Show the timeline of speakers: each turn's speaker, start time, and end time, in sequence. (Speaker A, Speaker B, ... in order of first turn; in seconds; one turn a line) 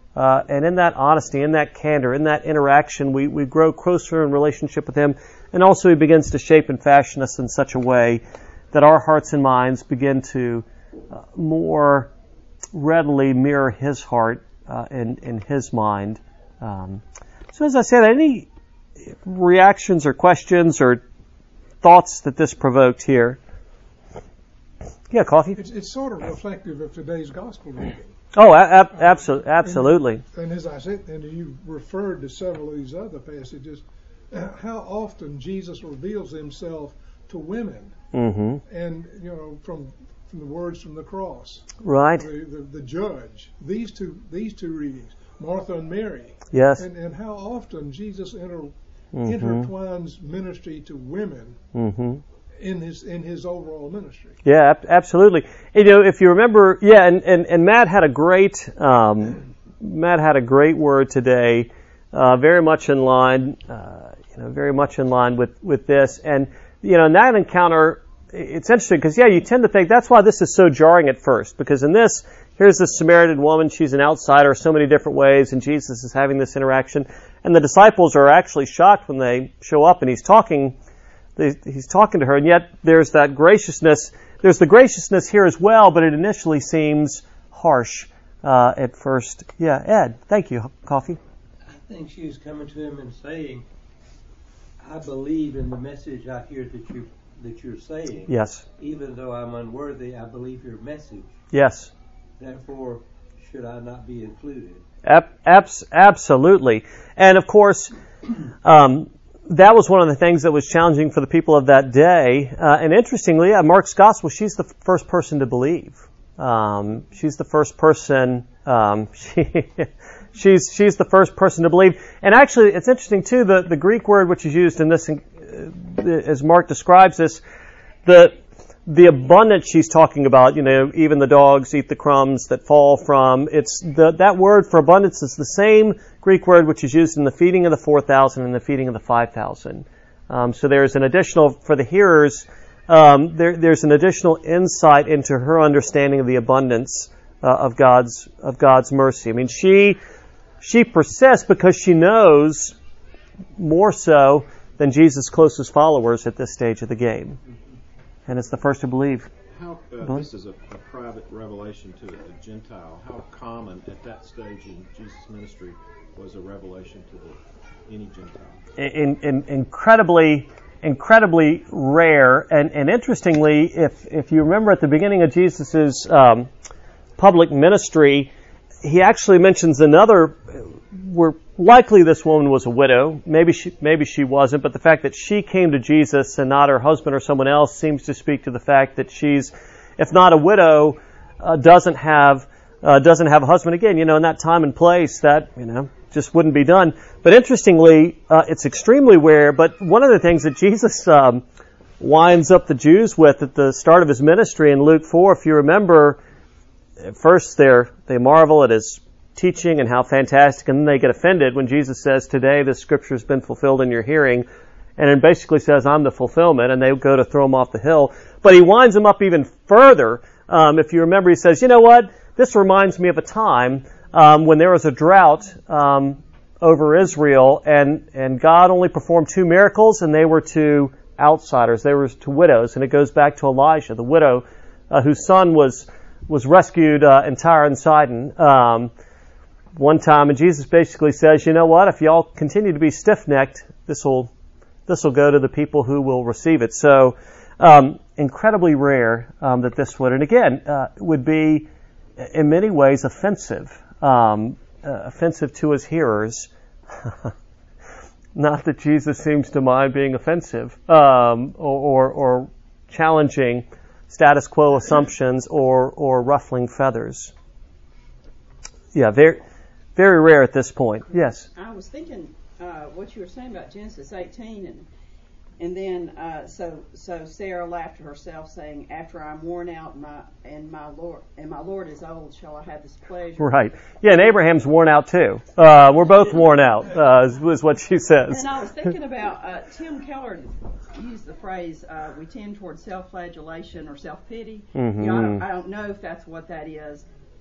Speaker A: 0.2-12.1
Speaker A: 12.7-17.0
Speaker A: 17.5-18.5
Speaker A: 19.2-21.0
Speaker A: 21.8-23.4
Speaker A: 25.1-25.6
Speaker B: 25.6-28.1
Speaker A: 28.3-30.2
Speaker B: 29.6-38.0
Speaker A: 38.1-38.6
Speaker B: 38.7-51.6
Speaker A: 41.8-42.3
Speaker A: 46.5-46.9
Speaker A: 49.1-49.7
Speaker A: 51.7-52.2
Speaker B: 52.6-54.4
Speaker A: 54.5-80.8
Speaker A: 81.4-91.2
Speaker C: 91.7-93.6
Speaker C: 94.8-101.3
Speaker A: 98.3-98.7
Speaker A: 101.5-101.9
Speaker C: 102.4-104.8
Speaker A: 105.0-107.9
Speaker A: 108.6-127.4
Speaker A: 128.1-150.0
Speaker A: 150.6-152.8
Speaker A: 153.6-157.4
Speaker A: 158.3-159.3
Speaker D: 159.5-168.6
Speaker A: 168.8-176.5
Speaker A: 177.2-178.3
Speaker A: 178.8-201.4
Speaker A: 202.0-206.2
Speaker A: 207.0-214.5
Speaker A: 215.0-238.9
Speaker A: 239.8-244.3
Speaker A: 244.9-251.7
Speaker A: 252.2-256.5
Speaker A: 257.0-257.3
Speaker A: 258.4-267.3
Speaker A: 268.9-269.4
Speaker A: 270.0-271.5
Speaker E: 271.6-274.9
Speaker E: 275.6-283.5
Speaker A: 283.4-288.4
Speaker E: 288.3-297.1
Speaker A: 294.8-295.4